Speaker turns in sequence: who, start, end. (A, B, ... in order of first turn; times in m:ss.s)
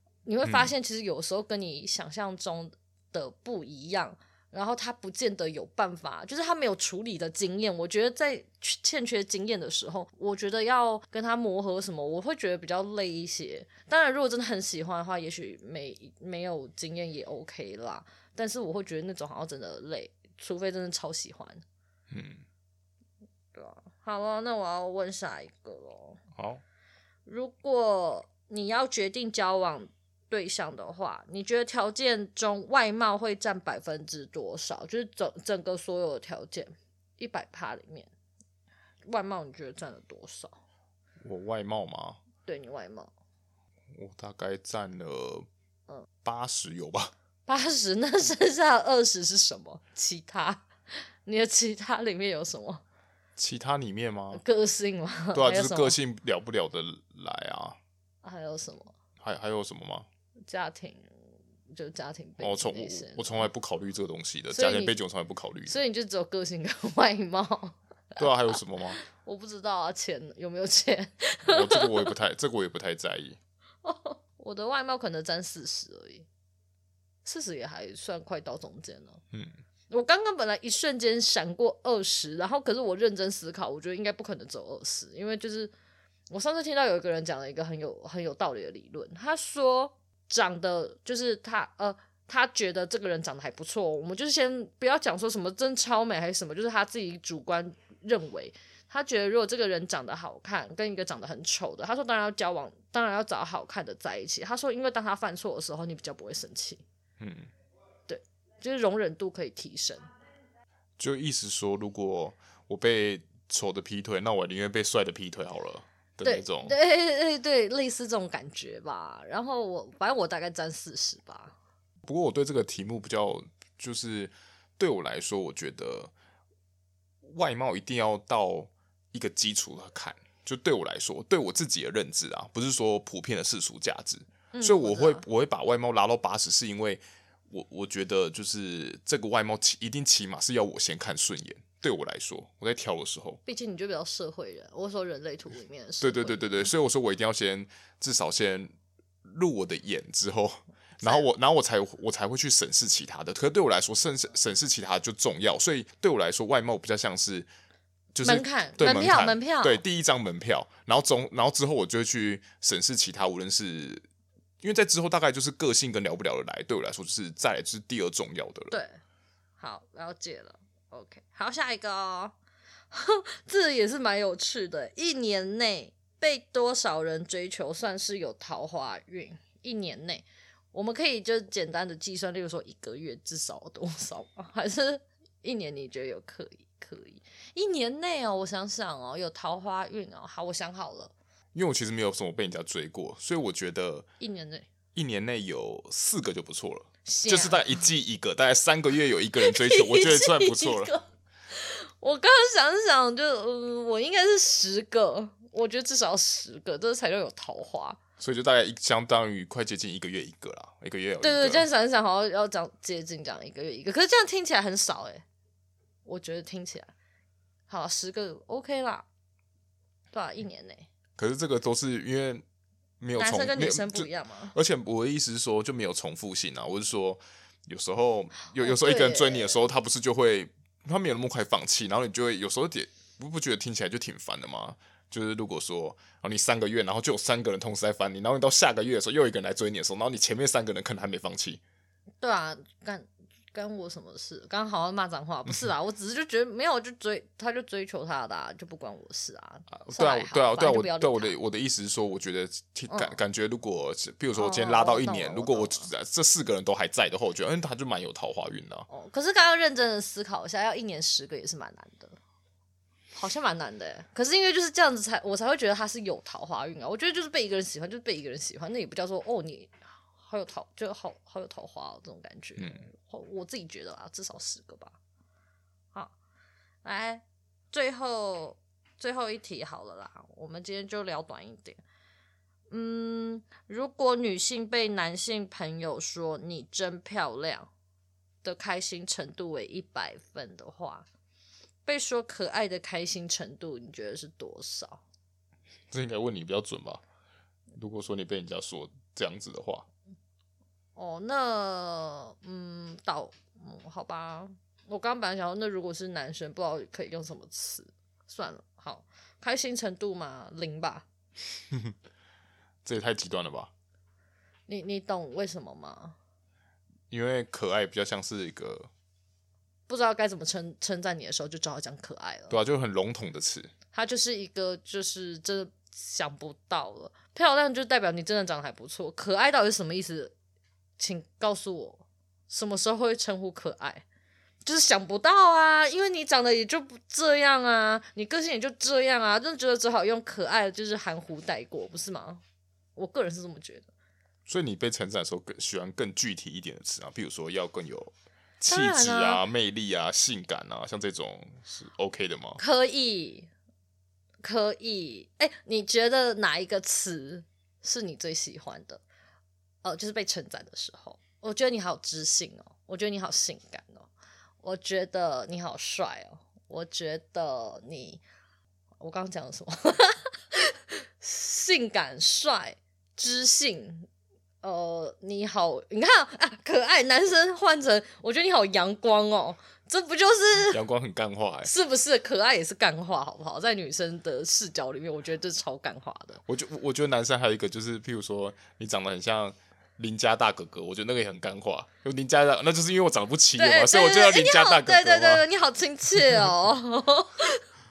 0:00.3-0:21.6 A
0:00.4-0:00.7 B
0:22.1-0:22.4 B
0:23.5-0:26.2 A
0:26.4-0:26.6 B
0:27.3-0:38.1 A
0:39.1-0:40.6 A
0:41.2-0:42.2 B
0:42.4-0:43.1 A
0:43.9-0:45.5 B
0:46.2-0:47.1 B
0:47.5-0:52.8 A
0:53.4-0:54.4 B
0:54.3-0:56.0 A
0:55.3-0:57.8 B
0:58.2-0:58.9 A
0:59.2-1:00.1 B
1:00.5-1:01.1 A
1:01.7-1:03.5 A
1:02.4-1:05.8 B
1:04.5-1:05.0 A
1:05.7-1:08.2 A
1:08.2-1:09.0 B
1:09.0-1:12.1 A
1:11.5-1:13.4 B
1:13.8-1:16.3 A
1:17.2-1:19.2 A
1:19.9-1:25.7 A
1:26.3-1:46.8 A
1:47.2-1:47.5 B
1:48.1-1:50.1 A
1:51.0-1:56.8 B
1:56.2-2:01.6 A
2:02.0-2:06.1 B
2:07.2-2:23.4 B
2:14.5-2:15.2 A
2:23.5-2:26.7 A
2:26.0-2:28.7 B
2:29.2-2:37.5 B
2:38.1-2:44.1 B
2:38.2-2:39.8 A
2:44.6-2:48.8 B
2:48.7-2:49.0 A
2:49.6-2:52.4 A
2:52.9-3:11.1 A
3:11.5-3:14.1 B
3:14.2-3:14.7 A
3:15.0-3:20.9 B
3:17.0-3:17.6 A
3:19.4-3:28.0 A
3:28.2-3:31.7 B
3:31.2-3:35.2 A
3:36.0-3:36.9 A
3:37.7-3:39.0 A
3:40.1-3:40.9 A
3:41.2-3:42.4 B
3:43.0-4:01.6 B
3:43.2-3:44.6 A
3:48.6-3:49.6 A
4:02.2-4:11.4 A
4:09.7-4:18.9 B
4:12.9-4:13.2 A
4:14.4-4:15.9 A
4:18.9-4:22.2 A
4:23.1-4:35.0 A
4:32.6-4:32.9 B
4:36.8-4:41.8 A
4:42.7-4:47.7 A
4:48.4-4:51.1 A
4:51.9-4:55.0 A
4:55.9-4:57.0 B
4:57.8-4:59.9 B
5:01.0-5:11.0 A
5:12.8-5:13.7 B
5:14.7-5:16.2 A
5:17.1-5:18.9 B
5:19.9-5:22.6 A
5:22.5-5:23.7 B
5:23.9-5:30.3 A
5:31.0-5:34.0 A
5:34.6-5:42.4 A
5:43.0-5:43.9 A
5:44.5-5:52.6 B
5:48.7-5:49.4 A
5:52.6-5:53.5 A
5:54.4-5:59.0 A
5:59.8-6:04.1 A
6:04.6-6:08.2 A
6:09.0-6:14.1 A
6:14.6-6:20.8 A
6:20.7-6:21.7 B
6:21.6-6:26.4 A
6:26.5-6:35.4 B
6:33.6-6:37.6 A